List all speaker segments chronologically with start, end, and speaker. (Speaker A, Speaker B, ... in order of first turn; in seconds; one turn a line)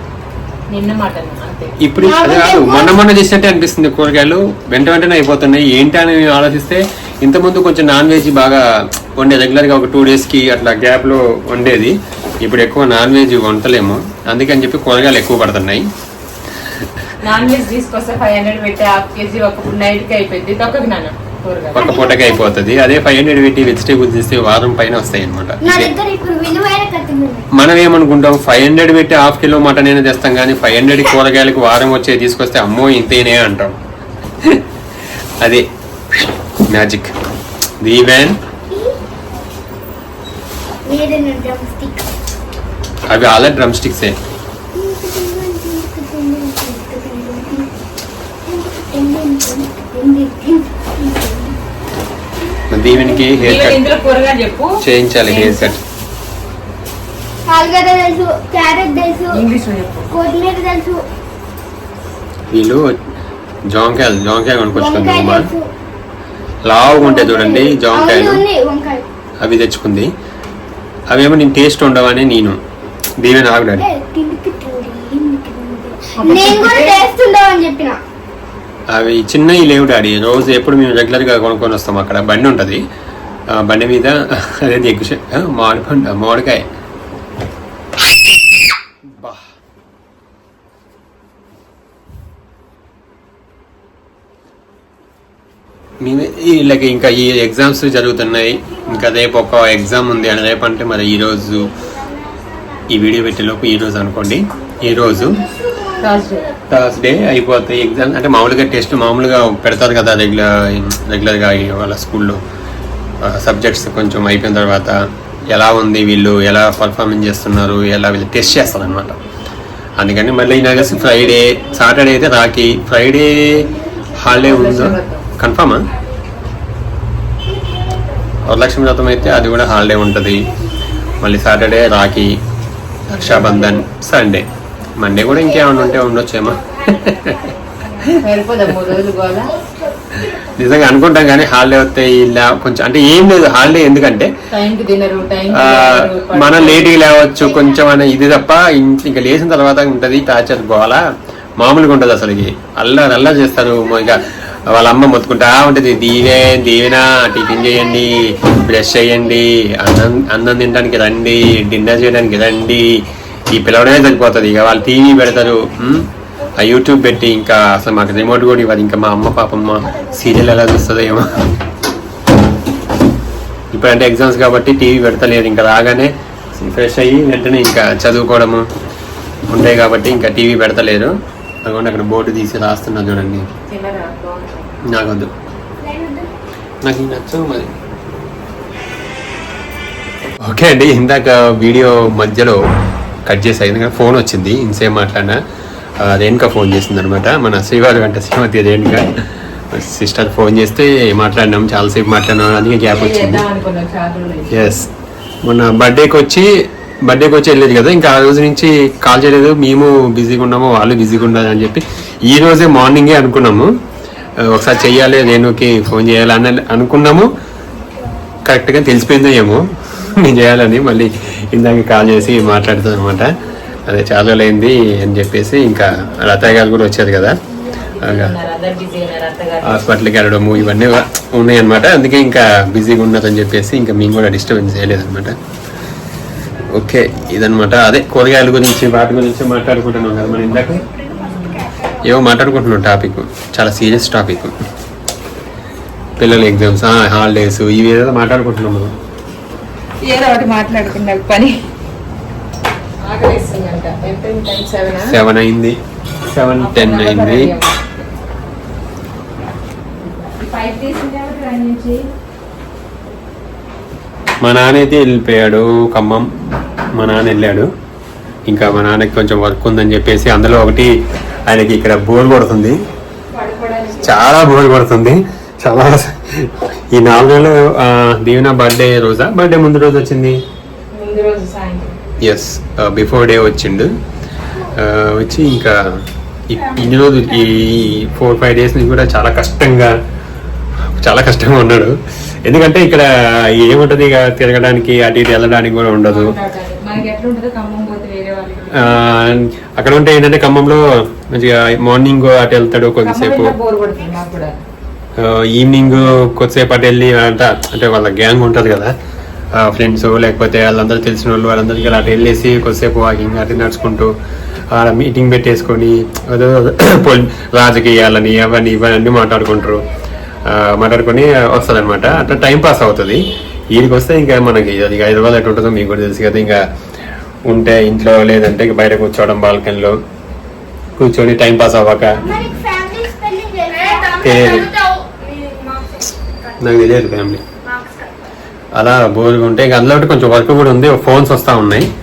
Speaker A: 0.7-1.8
Speaker B: 1.8-15.8
Speaker C: 2.0-3.0
Speaker A: 17.2-22.0
Speaker B: 21.8-25.9
Speaker C: 21.8-22.5
Speaker C: 25.6-27.5
Speaker B: 27.5-33.7
Speaker B: 36.7-37.1
Speaker B: 37.8-38.4
Speaker C: 38.7-39.0
Speaker C: 40.9-42.1
Speaker B: 43.1-44.1
Speaker C: 44.8-47.7
Speaker C: 48.5-51.6
Speaker B: 52.7-53.9
Speaker A: 53.1-55.7
Speaker B: 54.8-55.8
Speaker C: 57.5-59.4
Speaker A: 59.3-60.1
Speaker C: 60.1-61.1
Speaker B: 62.5-62.9
Speaker B: 63.7-65.5
Speaker C: 64.7-65.7
Speaker B: 66.7-68.4
Speaker C: 66.9-69.1
Speaker B: 69.4-70.1
Speaker B: 71.1-72.6
Speaker B: 73.2-73.9
Speaker C: 73.8-78.0
Speaker A: 76.2-77.1
Speaker B: 78.9-82.8
Speaker B: 83.5-86.7
Speaker B: 89.1-89.5
Speaker B: 96.0-101.8
Speaker B: 102.9-105.4
Speaker C: 105.2-106.5
Speaker A: 106.0-106.5
Speaker B: 106.7-112.4
Speaker B: 113.2-119.2
Speaker B: 120.0-125.8
Speaker C: 123.8-124.3
Speaker A: 124.4-125.3
Speaker C: 127.5-128.1
Speaker B: 128.4-130.5
Speaker B: 131.2-132.4
Speaker B: 133.1-134.5
Speaker A: 133.2-133.8
Speaker B: 135.0-137.5
Speaker C: 136.9-137.5
Speaker A: 138.2-139.6
Speaker C: 139.7-140.1
Speaker B: 140.2-144.3
Speaker A: 144.5-147.0
Speaker B: 145.5-151.0
Speaker B: 151.6-162.9
Speaker B: 163.5-166.1
Speaker B: 166.6-171.5
Speaker B: 173.7-178.7
Speaker B: 179.5-181.1
Speaker B: 181.6-183.5
Speaker A: 183.7-184.7
Speaker B: 184.9-185.3
Speaker C: 185.8-186.3
Speaker B: 186.8-187.8
Speaker B: 190.4-192.6
Speaker B: 193.3-195.4
Speaker B: 196.0-199.1
Speaker B: 199.7-203.4
Speaker A: 202.9-204.8
Speaker B: 204.5-204.9
Speaker B: 205.4-206.5
Speaker B: 207.0-213.7
Speaker B: 214.5-217.3
Speaker B: 218.4-223.3
Speaker B: 223.9-227.4
Speaker A: 227.9-229.9
Speaker B: 228.0-228.3
Speaker B: 229.6-235.4
Speaker B: 236.7-240.8
Speaker A: 241.2-241.7
Speaker B: 242.0-244.5
Speaker B: 246.2-248.9
Speaker A: 250.1-251.6
Speaker A: 253.1-255.2
Speaker B: 255.0-255.8
Speaker B: 256.3-257.5
Speaker A: 256.6-258.1
Speaker A: 260.1-262.1
Speaker B: 264.4-266.3
Speaker B: 267.0-267.7
Speaker B: 268.5-270.9
Speaker B: 271.5-272.8
Speaker A: 273.3-274.3
Speaker B: 274.0-280.4
Speaker A: 280.9-282.0
Speaker B: 282.2-283.9
Speaker B: 284.7-285.8
Speaker B: 286.5-289.9
Speaker B: 291.0-296.3
Speaker A: 296.1-299.1
Speaker B: 298.8-303.6
Speaker A: 303.0-304.6
Speaker B: 305.2-308.9
Speaker B: 309.6-314.1
Speaker B: 314.7-319.9
Speaker B: 320.5-326.6
Speaker B: 327.5-330.0
Speaker B: 331.0-332.2
Speaker C: 332.2-334.7
Speaker B: 334.2-334.7
Speaker A: 335.4-335.8
Speaker B: 336.6-337.4
Speaker B: 338.8-341.9